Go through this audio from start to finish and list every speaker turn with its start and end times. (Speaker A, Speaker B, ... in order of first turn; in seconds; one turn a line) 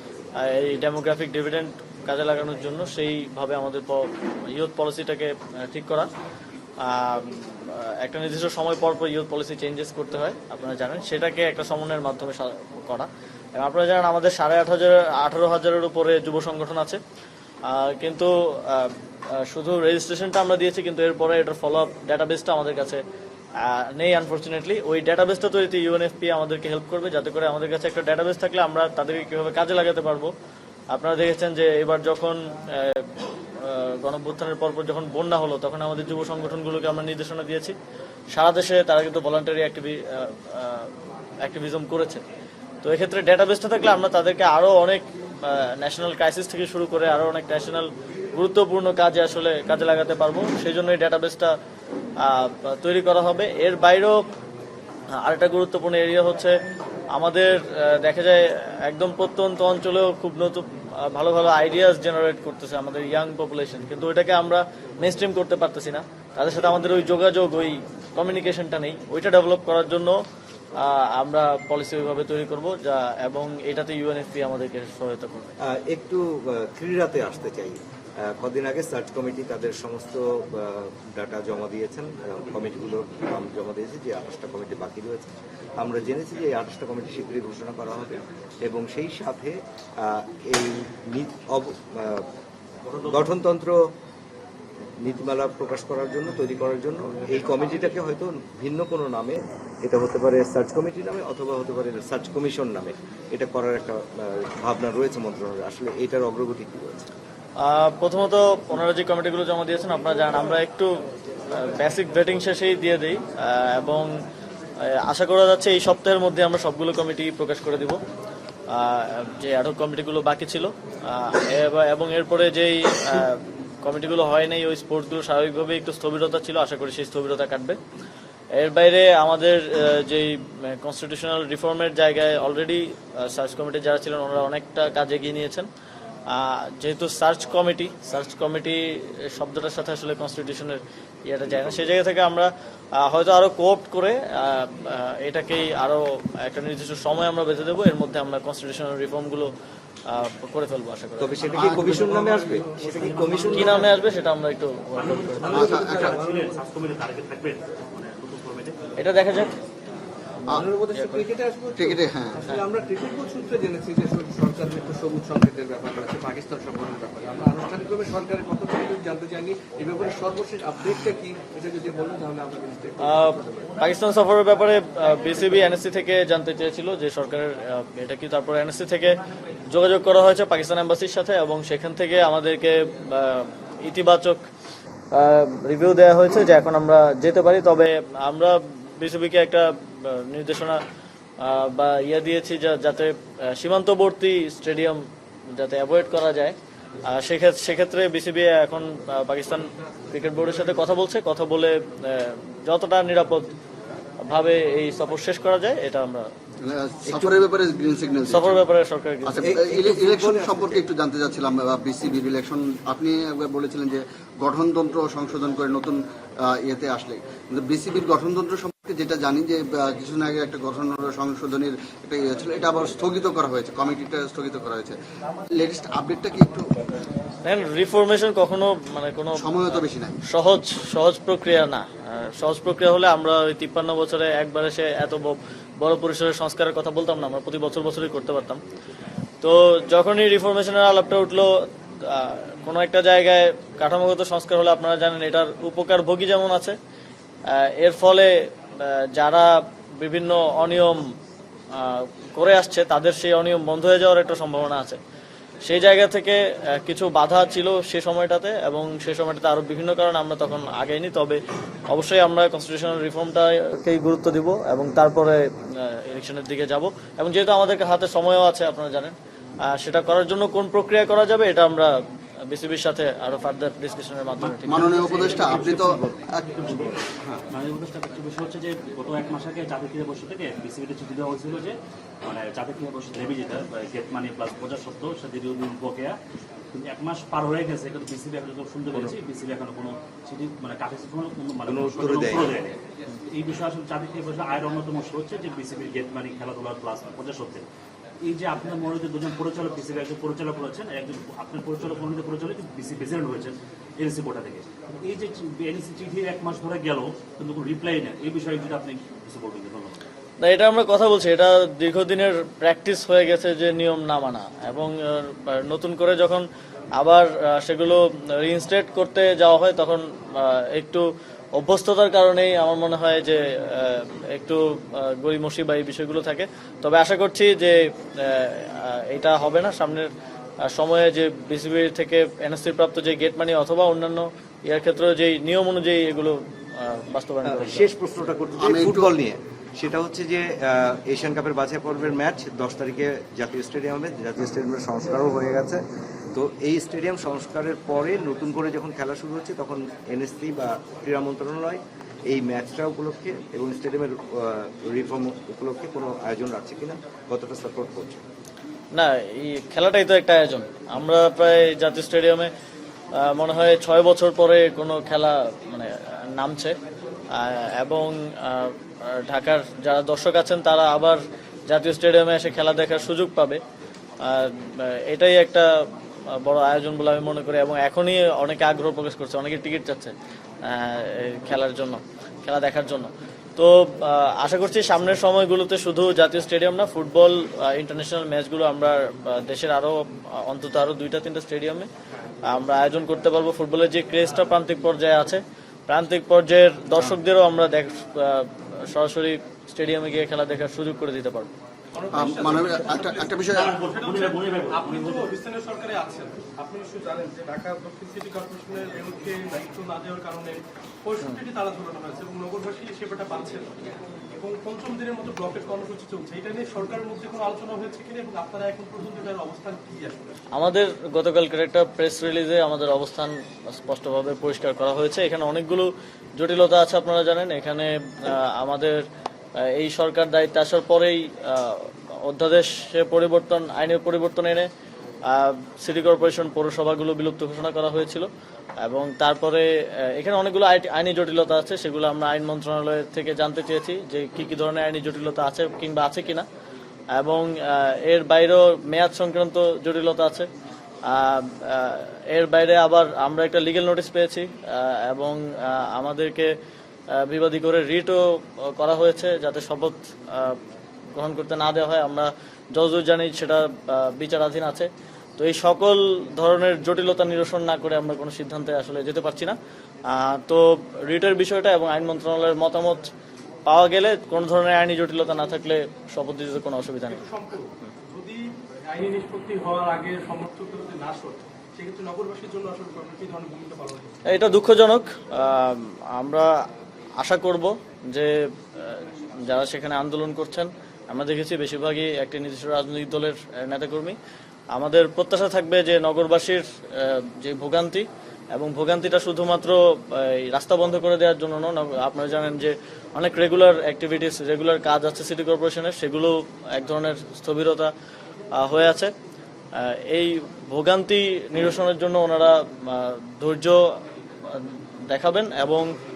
Speaker A: 0.4-6.1
Speaker A: 6.8-17.0
Speaker A: 17.7-23.0
Speaker A: 23.6-30.3
Speaker A: 30.9-37.8
Speaker A: 38.3-40.9
Speaker A: 41.4-42.2
Speaker A: 42.8-51.5
Speaker A: 52.2-54.2
Speaker A: 55.2-56.5
Speaker A: 57.1-70.2
Speaker A: 70.8-75.5
Speaker B: 75.6-92.2
Speaker B: 93.0-93.8
Speaker B: 95.0-107.1
Speaker A: 107.6-110.9
Speaker A: 111.5-114.1
Speaker A: 114.8-118.0
Speaker A: 118.7-127.8
Speaker A: 128.6-135.7
Speaker A: 136.3-149.5
Speaker A: 150.1-151.4
Speaker B: 151.2-153.9
Speaker C: 151.5-151.9
Speaker D: 151.6-153.8
Speaker E: 151.8-153.7
Speaker A: 153.5-155.8
Speaker D: 154.9-158.8
Speaker E: 155.4-156.5
Speaker C: 155.5-156.2
Speaker A: 159.0-159.5
Speaker E: 160.5-173.7
Speaker A: 160.9-161.2
Speaker C: 161.8-162.5
Speaker A: 173.0-179.2
Speaker A: 179.7-184.4
Speaker A: 185.1-190.8
Speaker A: 191.4-203.5
Speaker A: 204.2-206.3
Speaker C: 206.6-208.6
Speaker B: 207.1-207.4
Speaker A: 208.3-209.5
Speaker C: 209.2-224.9
Speaker E: 209.4-210.8
Speaker C: 225.5-226.8
Speaker A: 227.4-238.6
Speaker C: 229.3-230.2
Speaker A: 239.4-241.5
Speaker A: 242.0-246.8
Speaker A: 247.5-251.0
Speaker A: 251.7-255.0
Speaker A: 255.7-261.4
Speaker A: 261.9-269.1
Speaker A: 269.7-272.0
Speaker A: 272.5-275.8
Speaker C: 274.6-276.9
Speaker D: 274.9-286.2
Speaker D: 286.7-292.8
Speaker B: 291.7-292.5
Speaker D: 293.3-297.7
Speaker D: 298.2-310.0
Speaker A: 310.4-330.1
Speaker A: 330.6-337.9
Speaker B: 337.4-345.8
Speaker C: 338.6-339.1
Speaker B: 346.3-358.2
Speaker A: 358.9-362.5
Speaker A: 363.2-366.8
Speaker A: 367.3-373.6
Speaker A: 374.2-375.7
Speaker A: 376.4-380.1
Speaker A: 380.6-391.9
Speaker A: 392.5-401.5
Speaker F: 401.9-406.8
Speaker C: 402.1-403.8
Speaker D: 403.5-405.4
Speaker E: 406.8-407.9
Speaker F: 407.9-413.8
Speaker F: 414.4-420.2
Speaker A: 420.5-429.0
Speaker A: 429.6-434.7
Speaker A: 435.3-438.3
Speaker A: 438.8-446.5
Speaker A: 447.1-450.5
Speaker A: 451.1-456.5
Speaker A: 457.2-460.6
Speaker A: 461.2-469.6
Speaker A: 470.1-473.1
Speaker A: 473.7-477.2
Speaker F: 477.1-484.1
Speaker A: 484.3-486.5
Speaker A: 487.2-494.2
Speaker A: 494.7-507.9
Speaker A: 508.6-509.1
Speaker A: 509.8-513.8
Speaker A: 514.5-515.9